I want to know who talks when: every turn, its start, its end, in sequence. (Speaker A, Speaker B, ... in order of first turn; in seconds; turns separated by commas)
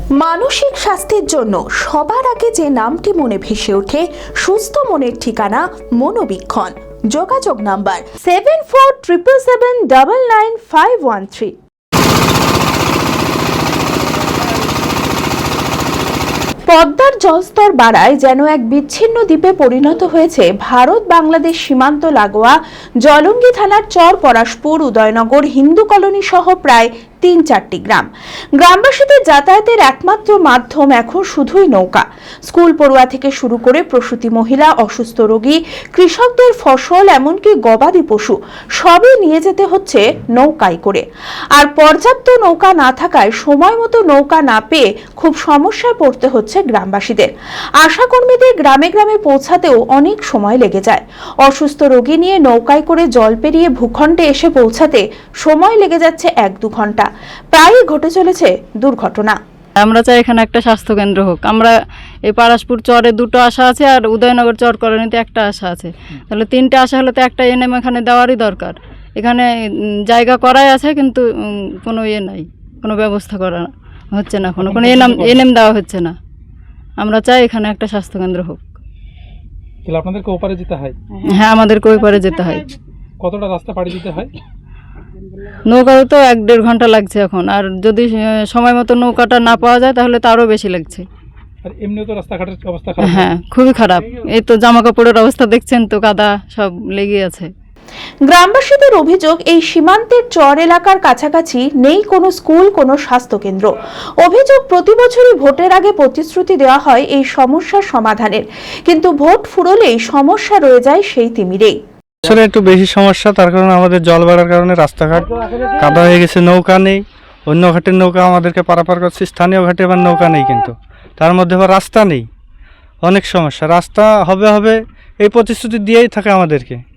Speaker A: 0.2-11.5, Speaker A: 16.7-28.1, Speaker A: 28.6-41.0, Speaker A: 41.6-47.3, Speaker A: 47.8-59.4, Speaker B: 59.8-61.7, Speaker B: 62.3-69.4, Speaker B: 70.1-71.2, Speaker B: 71.8-76.1, Speaker C: 74.6-75.4, Speaker B: 77.0-78.7, Speaker C: 79.8-81.0, Speaker B: 81.3-82.7, Speaker C: 83.2-84.3, Speaker B: 85.7-91.0, Speaker C: 91.6-93.2, Speaker B: 93.0-97.5, Speaker A: 98.2-111.8, Speaker D: 112.2-122.3, Speaker D: 123.0-126.8